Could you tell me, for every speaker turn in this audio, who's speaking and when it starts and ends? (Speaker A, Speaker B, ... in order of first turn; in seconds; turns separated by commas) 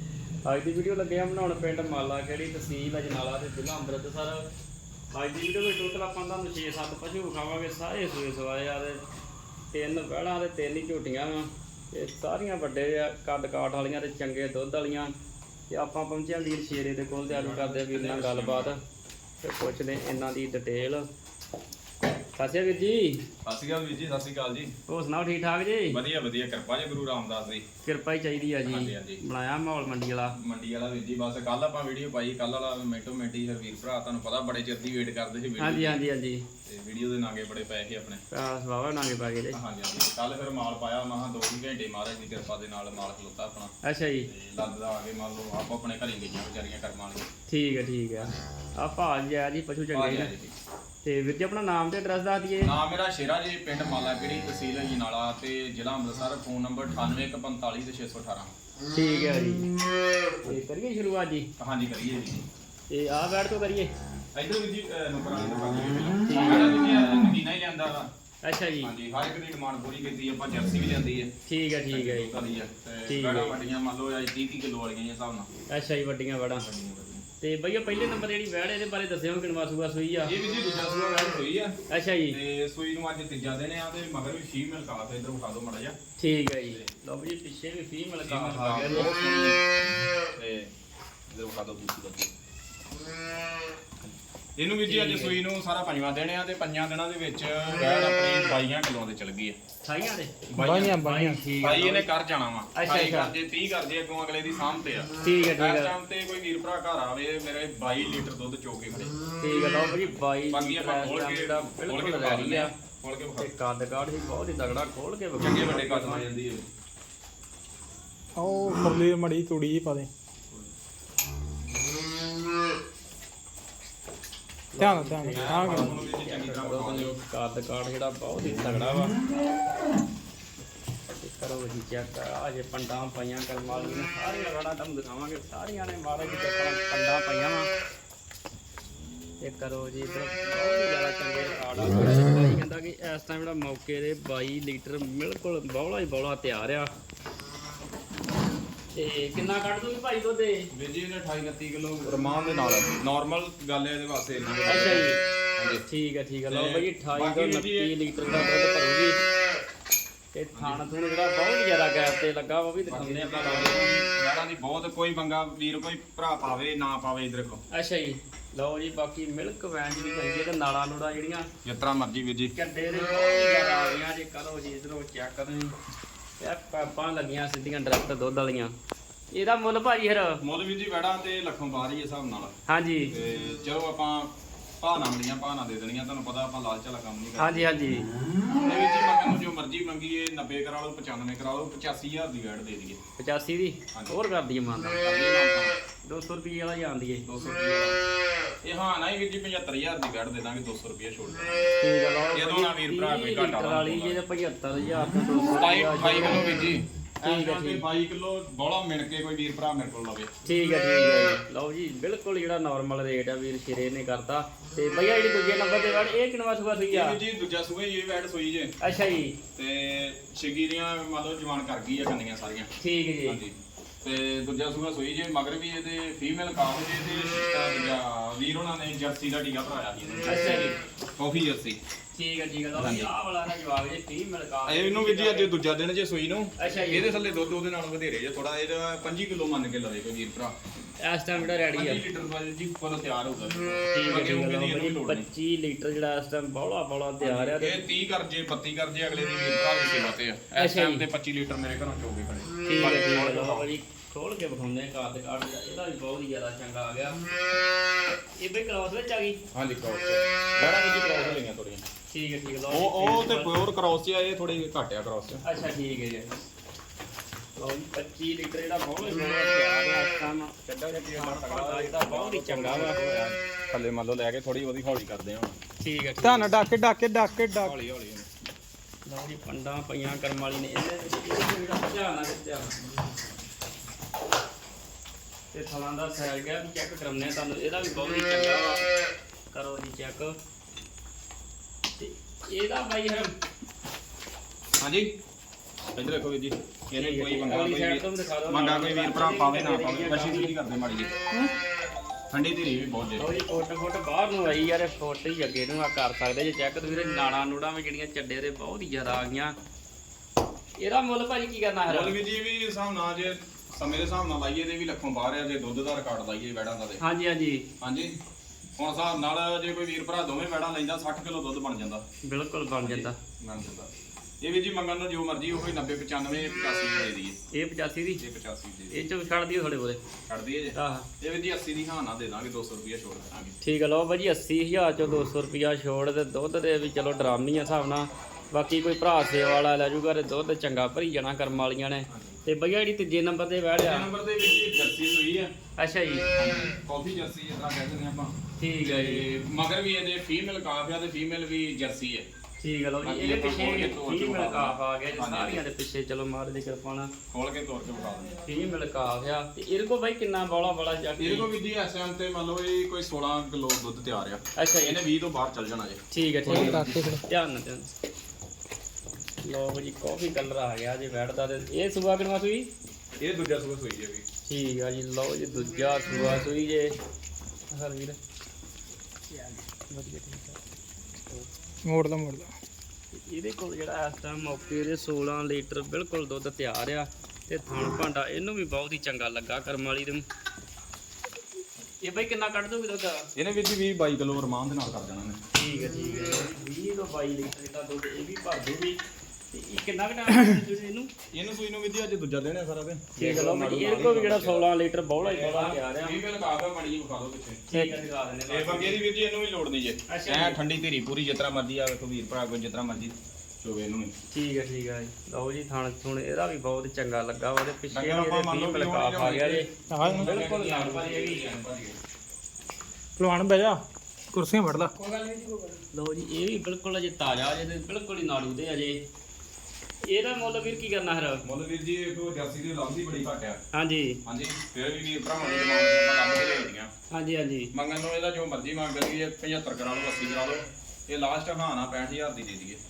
Speaker A: 0.5-4.4, Speaker A: 5.1-9.0, Speaker A: 9.7-15.1, Speaker A: 15.7-18.8, Speaker B: 17.3-18.7, Speaker A: 19.4-21.1, Speaker A: 22.4-23.2, Speaker B: 23.4-24.7, Speaker A: 24.9-26.0, Speaker B: 25.9-27.6, Speaker A: 27.8-30.4, Speaker B: 28.6-29.2, Speaker B: 30.4-36.0, Speaker A: 35.6-36.5, Speaker B: 36.7-38.2, Speaker A: 38.3-39.6, Speaker B: 39.5-43.7, Speaker A: 43.8-44.3, Speaker B: 44.3-47.3, Speaker A: 47.5-50.3, Speaker B: 49.9-50.5, Speaker A: 51.0-52.7, Speaker B: 52.6-58.5, Speaker A: 58.9-59.7, Speaker A: 60.4-61.5, Speaker B: 61.6-62.5, Speaker A: 62.9-63.9, Speaker B: 64.3-68.1, Speaker A: 66.2-66.8, Speaker A: 68.4-68.9, Speaker B: 68.8-71.3, Speaker A: 71.5-72.3, Speaker B: 71.9-75.5, Speaker A: 73.1-73.5, Speaker A: 75.7-76.7, Speaker B: 76.6-77.2, Speaker A: 77.4-80.3, Speaker B: 80.2-81.8, Speaker A: 81.9-82.4, Speaker B: 82.3-86.0, Speaker A: 86.2-89.1, Speaker B: 88.2-89.6, Speaker B: 90.3-90.7, Speaker B: 91.3-92.3, Speaker B: 94.6-99.6, Speaker A: 94.8-95.4, Speaker A: 99.8-100.3, Speaker B: 100.5-101.0, Speaker C: 100.5-101.4, Speaker A: 100.9-102.1, Speaker B: 101.6-109.1, Speaker A: 102.7-103.3, Speaker A: 105.2-105.9, Speaker A: 109.4-112.7, Speaker B: 110.5-113.5, Speaker A: 113.4-116.3, Speaker B: 115.4-116.7, Speaker C: 118.3-120.1, Speaker A: 124.7-129.1, Speaker C: 124.8-126.0, Speaker B: 125.3-127.2, Speaker A: 131.2-137.7, Speaker A: 139.4-146.9, Speaker A: 148.9-150.7, Speaker B: 150.7-155.8, Speaker A: 154.6-155.2, Speaker A: 155.9-159.2, Speaker B: 156.5-158.3, Speaker A: 160.3-163.9, Speaker B: 160.5-160.8, Speaker B: 162.8-167.6, Speaker A: 167.7-171.5, Speaker B: 171.6-172.5, Speaker A: 172.5-175.8, Speaker A: 176.4-178.7, Speaker A: 179.3-180.4, Speaker B: 180.4-182.5, Speaker A: 182.7-183.1, Speaker B: 183.1-188.0, Speaker A: 187.4-188.1, Speaker B: 188.5-193.0, Speaker A: 193.2-195.0, Speaker B: 194.9-195.8, Speaker A: 196.0-197.2, Speaker B: 197.2-198.0, Speaker B: 198.6-201.7, Speaker A: 201.8-206.6, Speaker B: 202.3-204.2, Speaker B: 205.6-210.3, Speaker A: 207.2-207.8, Speaker A: 210.4-217.2, Speaker B: 216.9-218.7, Speaker A: 218.8-219.4, Speaker B: 219.6-222.7, Speaker A: 222.8-223.4, Speaker B: 223.3-231.8, Speaker A: 230.2-230.8, Speaker A: 232.1-235.5, Speaker B: 232.8-233.1, Speaker B: 234.7-240.5, Speaker A: 236.6-237.1, Speaker A: 241.0-242.0, Speaker B: 241.3-245.3, Speaker A: 243.9-247.8, Speaker B: 247.2-253.7, Speaker A: 250.6-251.1, Speaker A: 252.7-257.2, Speaker A: 258.4-259.4, Speaker B: 259.5-261.8, Speaker A: 262.1-263.6, Speaker B: 262.7-265.4, Speaker A: 265.4-266.4, Speaker A: 267.6-273.0, Speaker B: 270.7-275.6, Speaker A: 275.8-276.6, Speaker C: 276.2-277.7, Speaker B: 277.6-278.3, Speaker A: 279.1-282.8, Speaker A: 285.5-288.8, Speaker A: 289.5-290.4, Speaker A: 292.0-293.3, Speaker B: 294.8-295.1, Speaker B: 295.9-301.1, Speaker A: 296.9-300.5, Speaker B: 302.3-303.3, Speaker A: 303.2-309.6, Speaker A: 310.8-312.2, Speaker B: 311.9-317.0, Speaker A: 317.0-317.6, Speaker B: 317.8-318.1, Speaker B: 318.8-322.1, Speaker A: 322.2-323.2, Speaker B: 322.8-323.9, Speaker B: 324.4-327.4, Speaker A: 327.5-328.2, Speaker B: 328.2-329.1, Speaker A: 328.9-330.0, Speaker B: 330.3-333.6, Speaker A: 330.8-331.1, Speaker A: 333.6-344.1, Speaker B: 342.1-342.4, Speaker B: 343.8-345.5, Speaker A: 345.8-346.3, Speaker B: 346.3-352.3, Speaker A: 348.6-349.2, Speaker A: 352.6-357.1, Speaker B: 353.0-355.6, Speaker B: 357.3-358.4, Speaker A: 358.4-361.5, Speaker B: 361.2-367.0, Speaker A: 364.6-365.0, Speaker A: 366.1-367.9, Speaker C: 366.5-367.2, Speaker A: 369.4-372.7, Speaker B: 373.2-374.2, Speaker A: 374.4-376.9, Speaker A: 377.7-378.2, Speaker A: 379.3-380.6, Speaker C: 381.8-382.5, Speaker A: 383.1-390.2, Speaker A: 392.0-393.3, Speaker B: 393.3-395.4, Speaker A: 395.5-399.0, Speaker A: 399.5-401.1, Speaker B: 401.3-404.7, Speaker A: 403.1-406.2, Speaker B: 405.2-414.1, Speaker A: 407.7-409.0, Speaker A: 410.1-410.6, Speaker A: 414.3-421.5, Speaker B: 417.9-422.0, Speaker C: 419.9-420.3, Speaker C: 423.2-425.8, Speaker A: 425.9-429.0, Speaker A: 430.0-431.4, Speaker B: 431.4-433.6, Speaker A: 433.7-434.2, Speaker B: 434.2-436.9, Speaker A: 437.1-437.7, Speaker B: 437.7-442.8